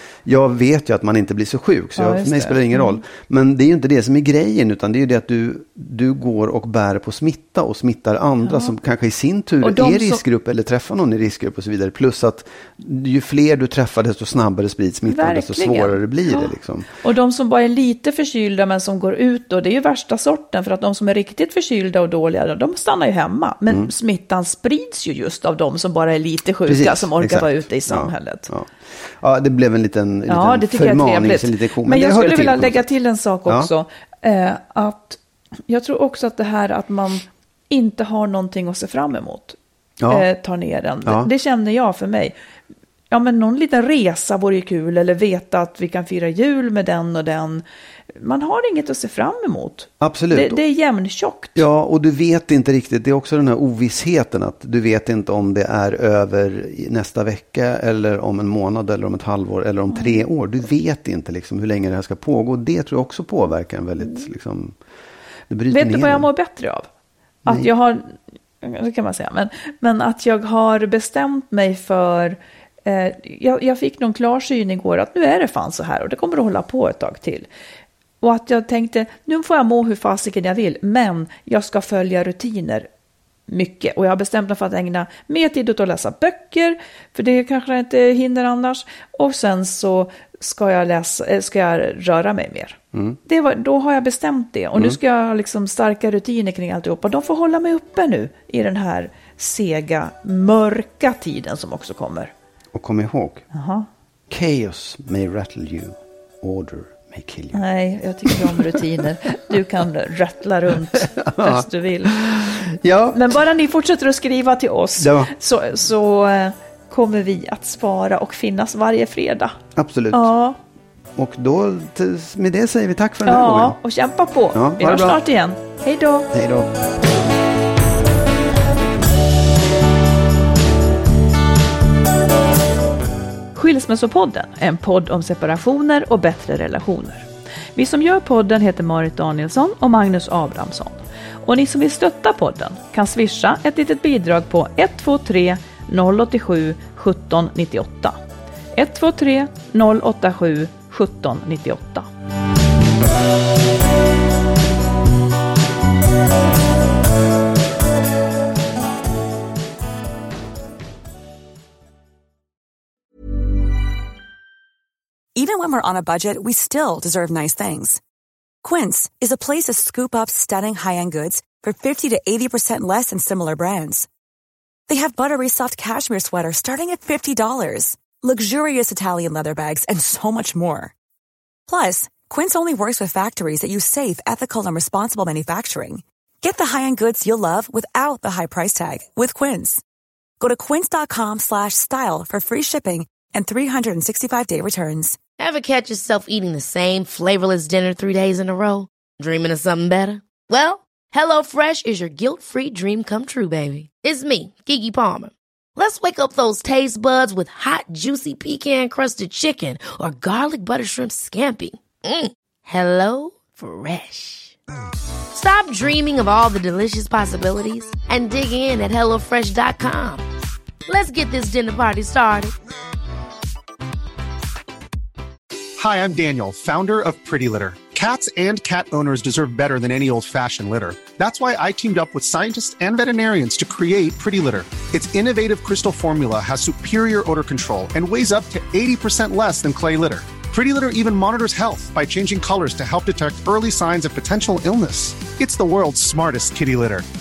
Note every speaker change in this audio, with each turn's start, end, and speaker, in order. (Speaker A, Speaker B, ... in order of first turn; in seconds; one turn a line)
Speaker A: 0.2-16.9
Speaker B: 1.9-3.0
Speaker B: 8.4-8.7
Speaker B: 9.6-10.2
Speaker B: 15.1-28.5
Speaker A: 26.6-32.9
Speaker B: 30.3-39.6
Speaker A: 33.4-33.7
Speaker A: 40.0-40.3
Speaker B: 40.1-42.3
Speaker A: 41.0-41.3
Speaker B: 43.1-47.6
Speaker B: 48.1-51.6
Speaker A: 50.0-50.6
Speaker A: 51.5-64.8
Speaker B: 59.9-60.2
Speaker A: 65.5-66.3
Speaker B: 65.7-66.9
Speaker B: 67.4-77.5
Speaker B: 78.2-82.9
Speaker B: 83.5-102.3
Speaker A: 92.9-93.2
Speaker A: 102.7-103.4
Speaker B: 103.5-103.9
Speaker A: 104.3-107.7
Speaker B: 107.5-119.5
Speaker A: 108.2-109.6
Speaker A: 110.7-113.3
Speaker A: 115.0-115.3
Speaker A: 119.8-120.3
Speaker B: 120.1-120.6
Speaker A: 121.2-123.8
Speaker B: 123.2-126.3
Speaker A: 124.5-125.2
Speaker A: 126.3-126.8
Speaker B: 133.5-148.2
Speaker B: 148.7-152.1
Speaker C: 165.3-168.0
Speaker C: 168.6-174.1
Speaker C: 174.9-180.9
Speaker C: 181.7-189.8
Speaker C: 190.4-195.2
Speaker D: 195.4-214.6
Speaker D: 215.3-220.2
Speaker D: 220.9-222.5
Speaker E: 225.8-247.0